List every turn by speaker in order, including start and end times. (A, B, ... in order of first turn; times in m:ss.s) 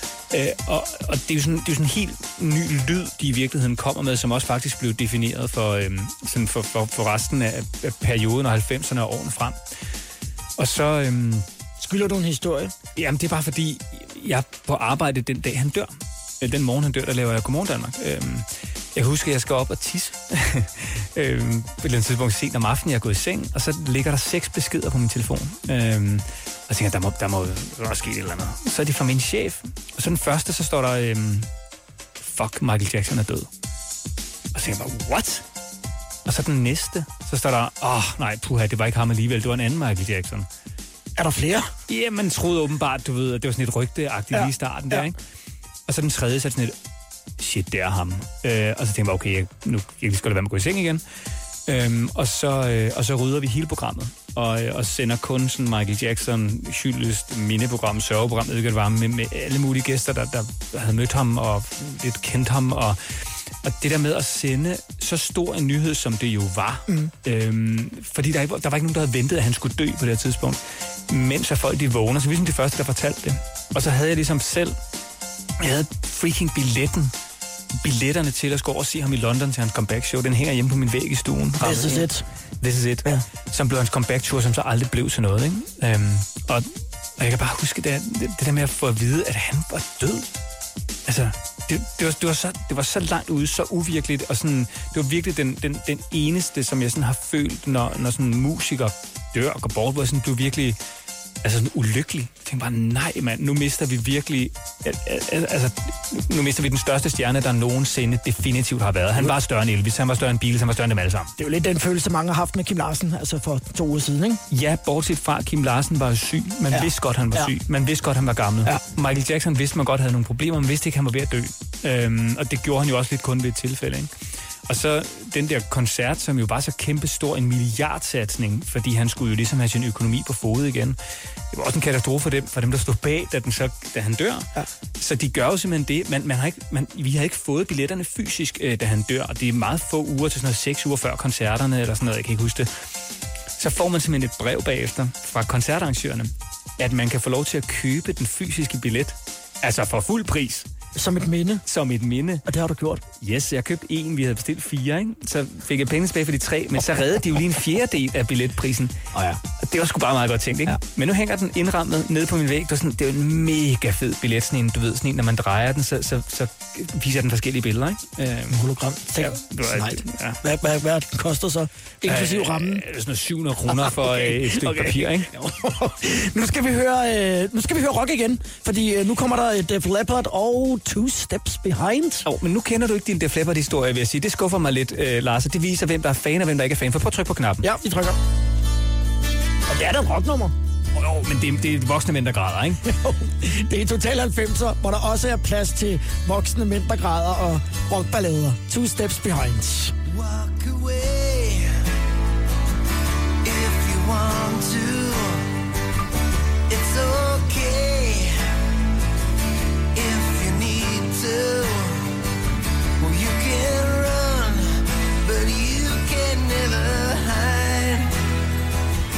0:00.3-0:09.6 A
0:10.6-0:11.5 A
0:11.8-0:12.7 B
0:13.0-0:31.5 A
0:32.2-0:33.5 A
0:34.5-0:35.4 A
0:36.2-0:40.5 A
0:41.2-0:41.7 B
0:41.9-0:45.2 A
0:44.3-0:45.1 B
0:45.9-0:46.8 A
0:47.4-0:51.0 A
0:51.7-1:03.0 A
1:03.6-1:14.8 A
1:15.6-1:17.1 A
1:17.8-1:22.1 A
1:21.6-1:22.2 B
1:22.6-1:26.7 A
1:27.2-1:30.3 A
1:31.1-1:40.8 A
1:41.4-1:51.3 A
1:51.4-1:54.4 B
1:54.5-2:04.1 A
1:56.7-1:57.5 B
2:04.7-2:11.0 A
2:11.5-2:14.5 A
2:15.0-2:22.7 A
2:23.6-2:30.7 A
2:31.0-2:31.6 B
2:31.7-2:32.5 A
2:32.5-2:33.0 B
2:33.2-2:39.0 A
2:39.1-2:39.4 B
2:39.6-2:48.6 A
2:48.5-2:52.8 B
2:49.2-2:50.4 A
2:52.0-2:55.3 A
2:53.7-3:02.3 B
3:02.2-3:07.7 A
3:07.6-3:08.2 B
3:09.7-3:10.6 B
3:11.0-3:12.8 A
3:12.8-3:20.0 B
3:20.1-3:21.8 C
3:23.4-3:25.5 C
3:26.7-3:28.4 C
3:30.0-3:32.2 C
3:33.0-3:38.1 C